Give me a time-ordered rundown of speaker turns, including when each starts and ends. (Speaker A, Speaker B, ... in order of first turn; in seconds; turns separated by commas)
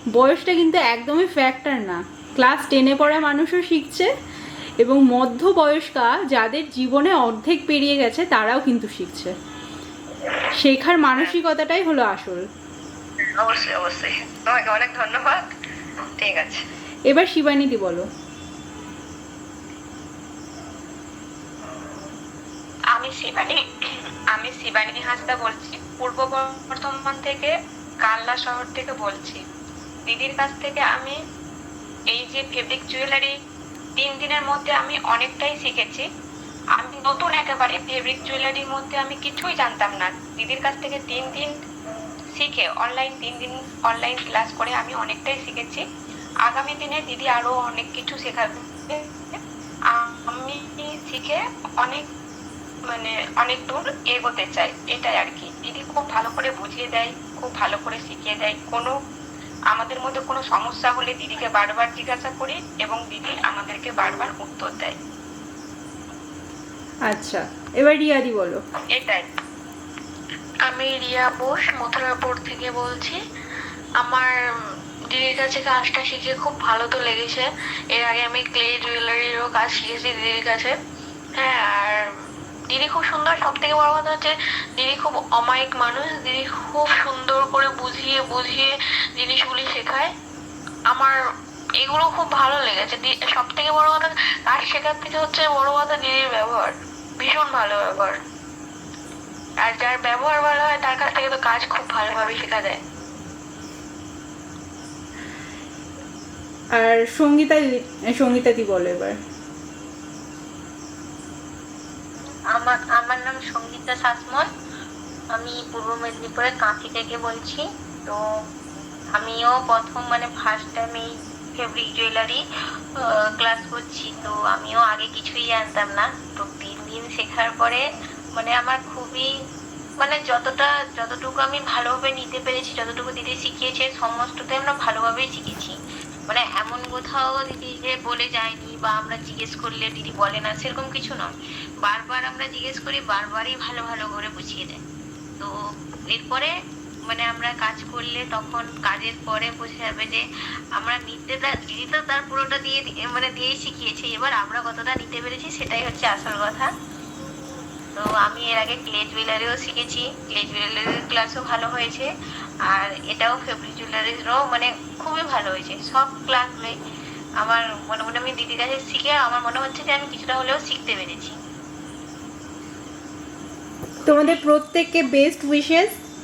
Speaker A: 0.1-4.1, Speaker A: 4.8-9.3, Speaker A: 10.6-12.5, Speaker B: 13.3-15.5, Speaker B: 16.2-16.6, Speaker A: 17.1-18.1, Speaker C: 22.9-23.6, Speaker C: 24.3-27.5, Speaker C: 28.0-29.4, Speaker C: 30.1-31.2, Speaker C: 32.1-33.4, Speaker C: 34.0-36.1, Speaker C: 36.8-41.6, Speaker C: 42.4-45.8, Speaker C: 46.5-49.4, Speaker C: 49.9-52.1, Speaker C: 52.9-58.9, Speaker C: 59.7-65.0, Speaker A: 67.1-68.6, Speaker C: 68.9-69.3, Speaker D: 70.7-73.2, Speaker D: 74.0-74.3, Speaker D: 75.1-80.8, Speaker D: 81.4-82.0, Speaker D: 82.7-90.1, Speaker D: 91.8-98.2, Speaker D: 99.6-102.8, Speaker A: 106.8-109.2, Speaker E: 112.5-114.5, Speaker E: 115.3-118.2, Speaker E: 119.2-122.4, Speaker E: 123.0-127.8, Speaker E: 128.4-129.3, Speaker E: 130.0-135.8, Speaker E: 136.3-141.3, Speaker E: 141.8-144.8, Speaker E: 146.1-146.5, Speaker E: 147.1-150.2, Speaker E: 150.8-156.7, Speaker E: 157.9-162.1, Speaker E: 162.7-166.8, Speaker E: 167.4-171.4, Speaker A: 174.1-176.0